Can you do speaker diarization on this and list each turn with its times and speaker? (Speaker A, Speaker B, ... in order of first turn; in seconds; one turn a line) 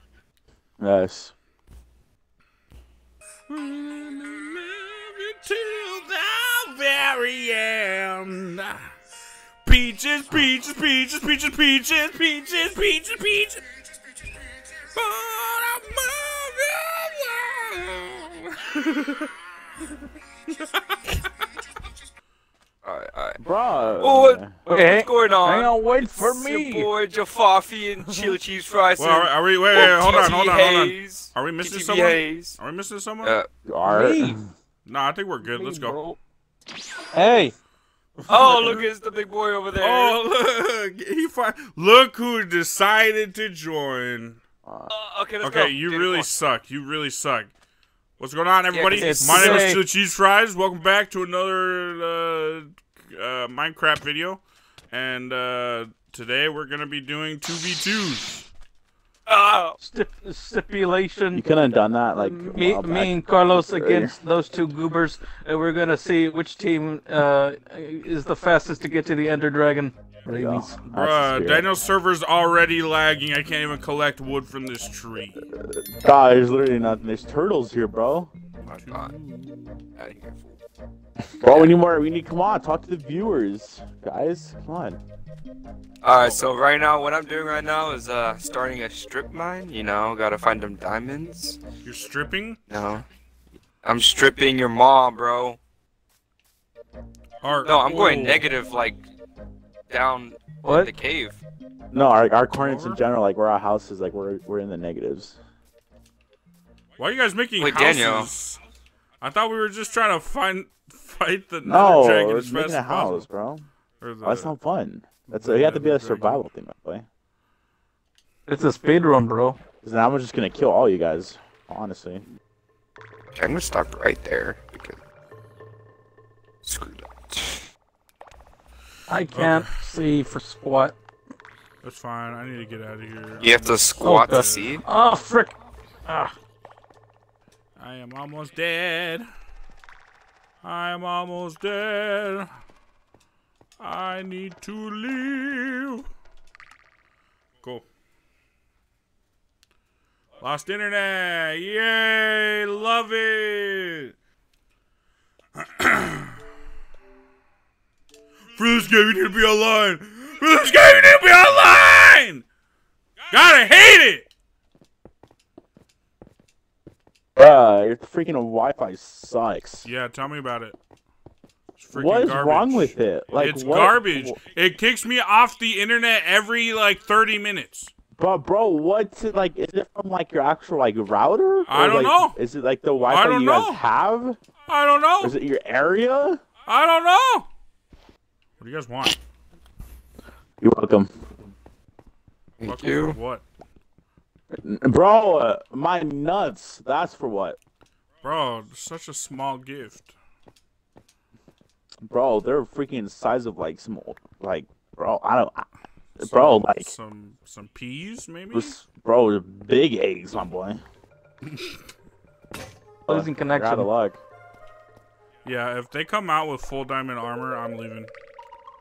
Speaker A: 0.8-1.3
Speaker B: 3.5-8.9
Speaker B: 9.6-13.6
Speaker B: 14.9-19.3
Speaker C: 22.8-23.4
Speaker A: 23.4-24.5
Speaker C: 24.0-32.6
Speaker D: 24.7-26.9
Speaker B: 29.0-33.4
Speaker C: 33.2-33.5
Speaker A: 33.6-34.4
Speaker D: 33.8-34.4
Speaker B: 34.8-36.0
Speaker D: 35.4-36.2
Speaker A: 37.1-37.5
Speaker C: 38.3-40.2
Speaker A: 38.4-38.6
Speaker B: 39.8-44.4
Speaker A: 44.6-44.9
Speaker C: 44.9-46.3
Speaker B: 45.4-47.5
Speaker B: 48.2-58.5
Speaker C: 48.7-49.7
Speaker D: 48.9-49.8
Speaker C: 59.3-59.8
Speaker D: 59.8-61.4
Speaker A: 61.3-64.2
Speaker D: 62.1-70.8
Speaker A: 70.2-71.7
Speaker B: 70.9-75.5
Speaker A: 75.5-78.3
Speaker C: 78.6-79.1
Speaker B: 78.8-79.8
Speaker C: 80.0-80.5
Speaker A: 81.4-85.0
Speaker C: 81.5-81.8
Speaker C: 86.0-91.6
Speaker B: 91.8-92.6
Speaker C: 92.7-93.0
Speaker C: 93.8-95.6
Speaker B: 97.4-98.5
Speaker C: 97.6-99.0
Speaker C: 99.9-101.4
Speaker D: 100.6-100.9
Speaker A: 101.9-105.4
Speaker B: 102.5-103.0
Speaker B: 107.0-108.6
Speaker C: 107.6-108.3
Speaker B: 109.2-113.3
Speaker A: 111.6-113.7
Speaker B: 114.0-114.5
Speaker A: 114.2-117.0
Speaker B: 115.3-116.5
Speaker D: 118.5-119.6
Speaker A: 119.8-122.2
Speaker C: 123.3-125.0
Speaker C: 126.6-127.6
Speaker D: 129.1-130.9
Speaker B: 129.3-129.8
Speaker B: 131.8-134.8
Speaker C: 133.4-134.8
Speaker D: 134.0-136.3
Speaker B: 137.8-139.3
Speaker B: 140.6-142.5
Speaker B: 143.8-146.1
Speaker B: 150.4-154.1
Speaker B: 155.6-156.3
Speaker B: 158.5-162.4
Speaker B: 163.3-164.2
Speaker A: 167.3-169.9
Speaker B: 169.8-170.8
Speaker B: 171.8-177.9
Speaker A: 171.9-174.4
Speaker A: 178.2-184.4
Speaker B: 181.7-182.4
Speaker B: 183.1-183.8
Speaker B: 184.7-185.3
Speaker A: 185.2-186.4
Speaker B: 186.7-187.5
Speaker B: 188.6-189.2
Speaker A: 190.6-191.1
Speaker C: 192.6-193.2
Speaker B: 192.6-193.4
Speaker A: 194.5-197.6
Speaker B: 198.2-200.1
Speaker A: 202.0-205.6
Speaker A: 206.2-206.9
Speaker B: 206.2-208.8
Speaker A: 208.5-210.8
Speaker D: 213.1-213.9
Speaker A: 213.1-214.2
Speaker B: 215.4-218.1